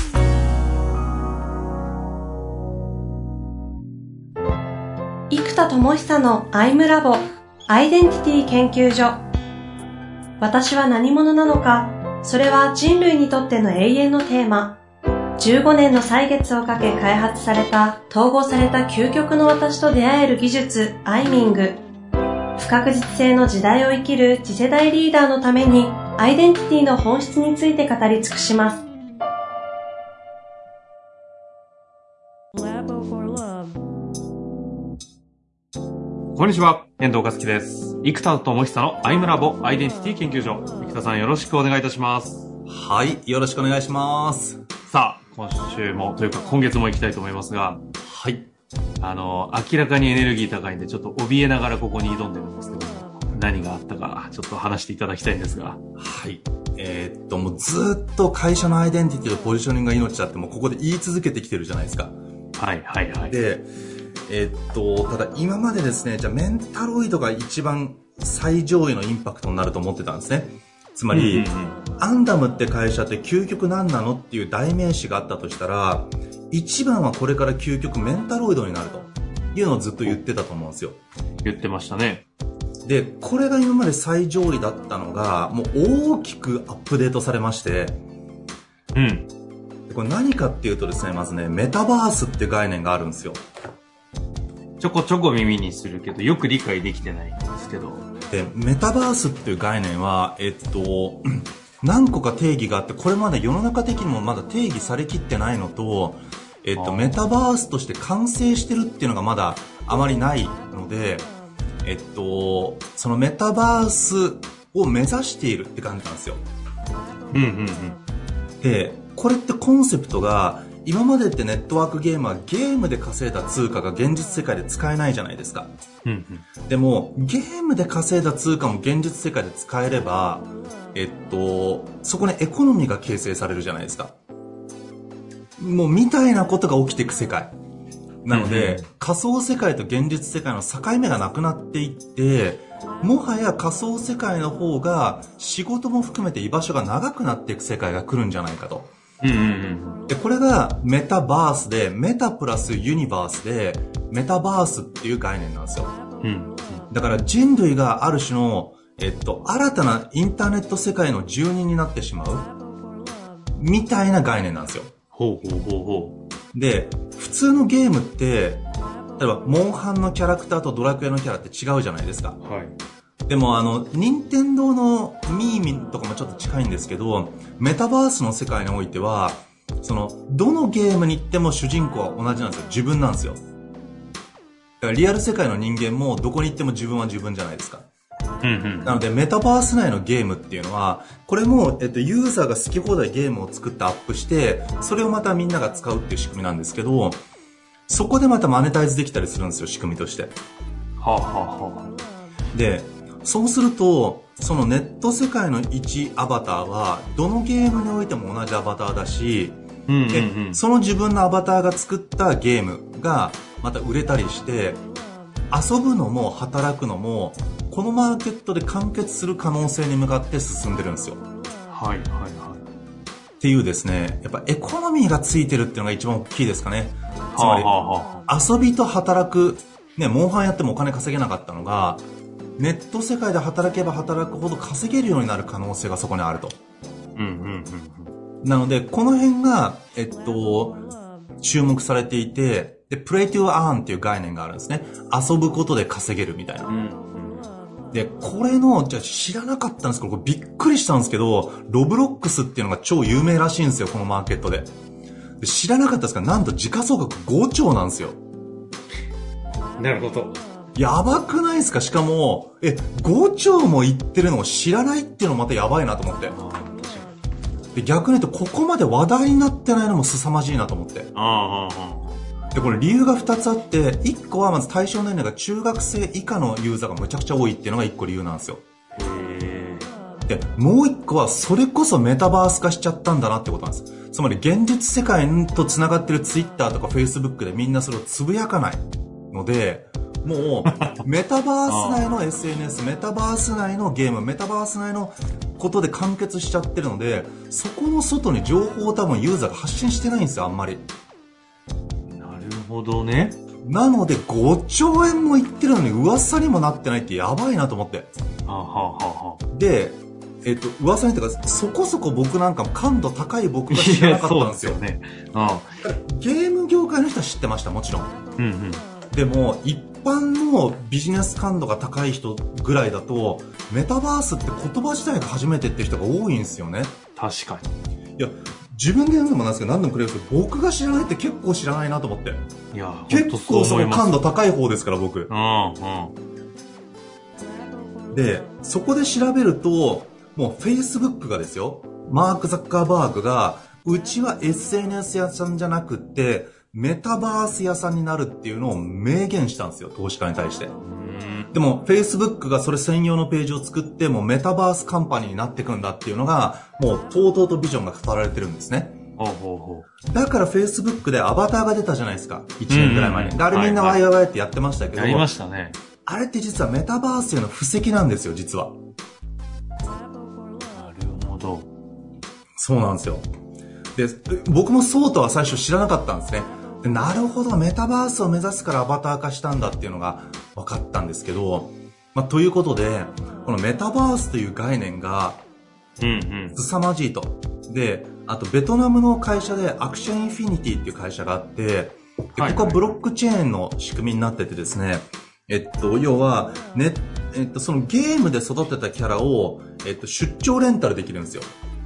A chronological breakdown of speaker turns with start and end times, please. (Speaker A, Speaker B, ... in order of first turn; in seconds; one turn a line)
Speaker A: 5.3-9.2
Speaker A: 10.4-14.8
Speaker A: 15.4-21.8
Speaker A: 22.6-28.8
Speaker B: 36.3-42.5
Speaker C: 42.7-44.6
Speaker B: 44.9-47.8
Speaker C: 48.0-48.5
Speaker B: 49.0-55.8
Speaker C: 56.0-62.1
Speaker B: 62.6-63.4
Speaker C: 63.3-63.7
Speaker C: 64.3-81.0
Speaker B: 71.1-71.8
Speaker B: 81.4-82.2
Speaker C: 82.8-88.0
Speaker B: 88.9-89.3
Speaker C: 89.9-93.4
Speaker B: 94.8-98.0
Speaker C: 98.3-111.3
Speaker B: 106.8-107.2
Speaker C: 111.8-116.4
Speaker B: 117.3-118.0
Speaker C: 118.6-125.7
Speaker B: 126.0-126.4
Speaker C: 126.7-134.1
Speaker C: 135.6-137.5
Speaker C: 138.2-148.9
Speaker B: 138.3-138.8
Speaker B: 149.2-150.0
Speaker C: 150.1-155.9
Speaker B: 156.2-156.8
Speaker C: 156.9-162.5
Speaker C: 163.6-164.9
Speaker B: 165.1-166.2
Speaker C: 166.5-168.6
Speaker C: 169.2-172.4
Speaker B: 172.4-172.7
Speaker C: 173.3-183.4
Speaker C: 184.8-187.8
Speaker B: 188.4-189.0
Speaker C: 188.8-197.2
Speaker C: 197.9-200.3
Speaker B: 201.0-201.9
Speaker C: 202.5-209.6
Speaker B: 209.9-210.6
Speaker C: 210.1-214.8
Speaker C: 215.5-221.2
Speaker B: 221.7-222.6
Speaker C: 223.4-227.7
Speaker B: 227.3-228.2
Speaker C: 228.3-232.0
Speaker C: 232.6-236.6
Speaker B: 237.2-238.1
Speaker C: 238.4-240.8
Speaker C: 241.4-246.7
Speaker B: 246.7-247.5
Speaker C: 247.9-254.7
Speaker C: 255.4-258.2
Speaker B: 259.8-260.4
Speaker C: 260.7-266.3
Speaker B: 266.3-267.1
Speaker C: 267.7-271.1
Speaker B: 271.1-272.2
Speaker C: 272.5-278.6
Speaker B: 278.9-279.9
Speaker C: 280.3-300.9
Speaker B: 290.7-291.0
Speaker B: 291.7-292.1
Speaker B: 302.1-303.4
Speaker C: 303.6-308.1
Speaker B: 308.4-309.4
Speaker C: 309.5-314.8
Speaker B: 313.7-315.8
Speaker C: 315.8-318.1
Speaker B: 318.4-318.8
Speaker C: 319.1-326.9
Speaker B: 327.1-327.7
Speaker C: 328.2-332.4
Speaker B: 332.7-334.2
Speaker C: 333.1-335.3
Speaker B: 335.3-336.1
Speaker C: 338.1-350.7
Speaker B: 350.8-351.5
Speaker C: 351.5-359.0
Speaker B: 359.2-359.9
Speaker C: 360.0-365.3
Speaker B: 362.7-364.0
Speaker B: 364.9-365.8
Speaker C: 366.1-368.8
Speaker B: 370.7-371.7
Speaker C: 372.6-373.3
Speaker C: 373.9-385.4
Speaker B: 386.0-386.6
Speaker C: 386.5-401.5
Speaker B: 392.4-392.9